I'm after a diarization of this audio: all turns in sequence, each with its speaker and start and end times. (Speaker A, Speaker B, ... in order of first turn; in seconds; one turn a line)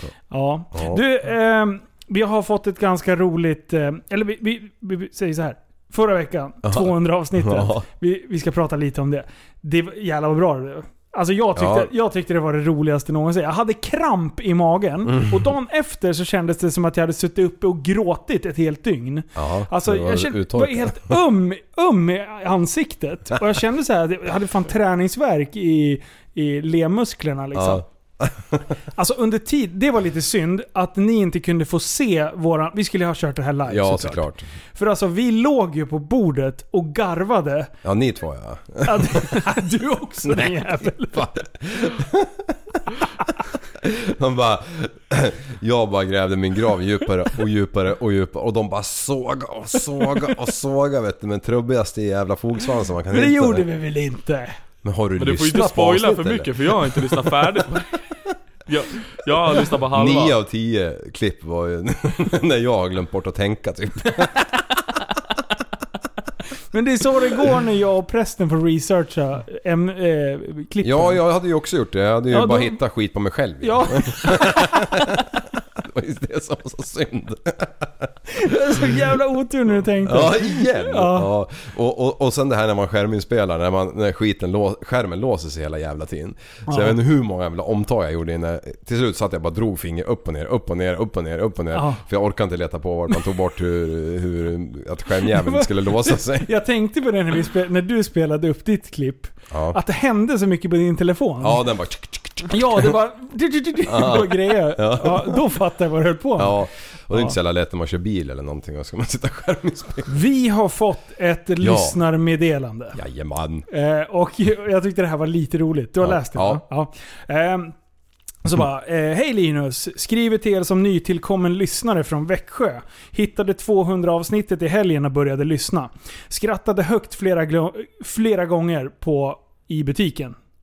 Speaker A: 0.3-27.8
Speaker B: 0.7-1.0
Speaker B: 6.6-7.8
Speaker B: 11.6-11.9
Speaker B: 19.4-21.2
Speaker B: 27.5-28.6
Speaker A: 28.9-37.7
Speaker B: 33.7-34.5
Speaker B: 37.8-39.5
Speaker A: 38.8-41.4
Speaker B: 40.2-42.8
Speaker B: 43.8-53.6
Speaker A: 53.1-54.6
Speaker B: 54.8-57.8
Speaker C: 55.2-58.0
Speaker C: 58.7-60.4
Speaker B: 59.9-64.5
Speaker A: 66.7-71.2
Speaker B: 70.8-78.1
Speaker A: 72.3-72.8
Speaker A: 73.6-75.0
Speaker A: 78.3-81.3
Speaker B: 80.0-96.5
Speaker A: 86.7-87.0
Speaker A: 91.7-92.0
Speaker A: 95.3-101.6
Speaker B: 99.5-99.8
Speaker B: 101.4-103.0
Speaker A: 102.5-107.3
Speaker B: 103.9-105.4
Speaker B: 106.4-110.1
Speaker A: 110.1-113.0
Speaker B: 111.6-112.0
Speaker B: 112.9-113.7
Speaker A: 113.7-117.8
Speaker B: 116.0-116.6
Speaker A: 118.4-130.4